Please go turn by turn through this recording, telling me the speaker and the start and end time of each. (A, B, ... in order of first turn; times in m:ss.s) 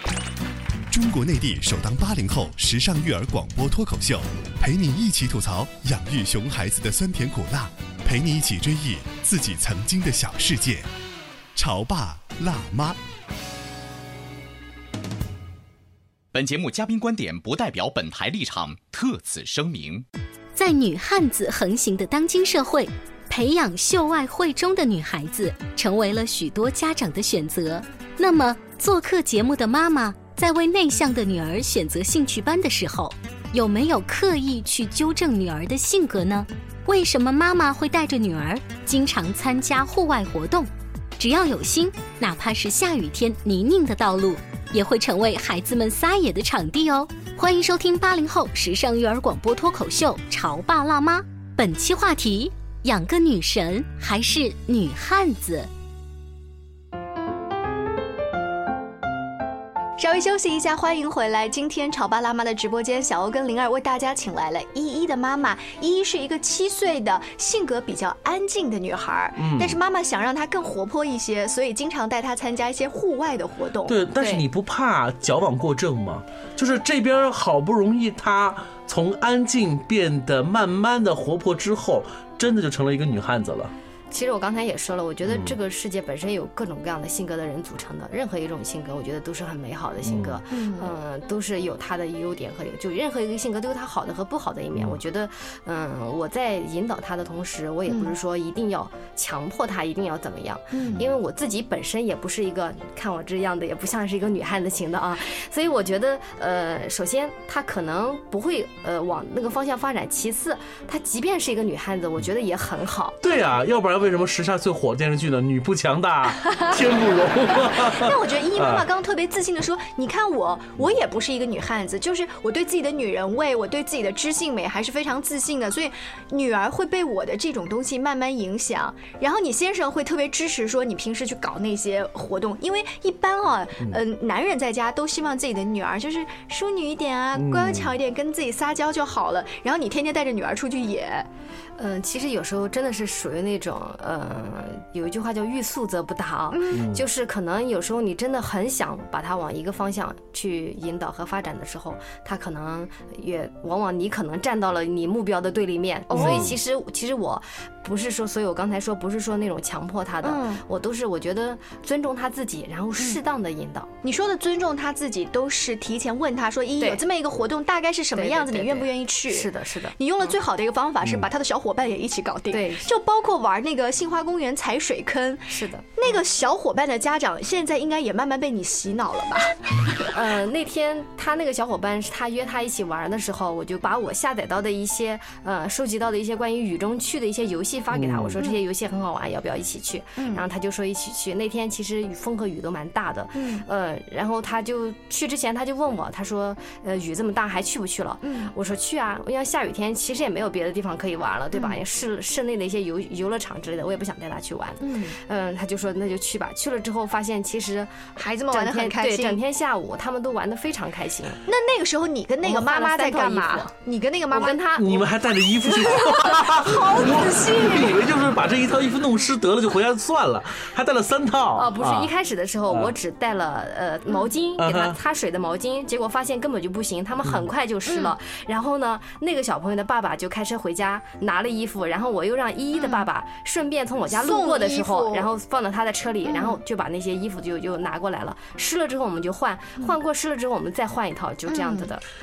0:00.9-0:10.9 A
0:11.6-0:13.0 A
0:16.3-0:20.0 B
0:20.5-0:55.7 C
1:00.0-1:14.0 D
1:09.4-1:09.8 E
1:13.8-1:23.7 E
1:24.1-1:53.2 F
1:25.2-1:25.5 E
1:30.0-1:30.4 E
1:30.5-1:30.9 D
1:37.9-1:38.1 D
1:40.7-1:41.1 D
1:53.2-1:58.9 E
1:57.6-2:21.3 D
2:17.4-2:17.9 E
2:21.8-2:43.9 F
2:26.5-2:26.8 D
2:26.7-2:27.0 E
2:36.1-2:36.5 D
2:36.1-2:36.6 E
2:40.2-2:40.6 D
2:44.0-3:00.0 D
2:48.1-2:50.3 F
2:51.0-2:51.3 E
2:52.5-2:52.9 F
2:55.5-2:56.1 F
3:00.1-3:31.4 F
3:07.9-3:08.4 E
3:10.2-3:10.4 D
3:13.3-3:13.6 D
3:18.2-3:18.5 D
3:21.5-3:21.8 D
3:24.8-3:25.2 D
3:28.2-3:29.4 D
3:31.4-3:35.0 D
3:32.4-3:33.7 F
3:34.3-3:35.0 F
3:34.8-3:42.1 E
3:35.6-3:38.0 D
3:41.6-4:02.0 F
3:42.7-3:42.9 E
3:44.6-3:45.0 E
3:47.9-3:48.1 D
3:52.7-3:53.1 D
3:54.1-3:55.3 D
3:56.2-3:56.6 D
4:01.5-4:01.9 D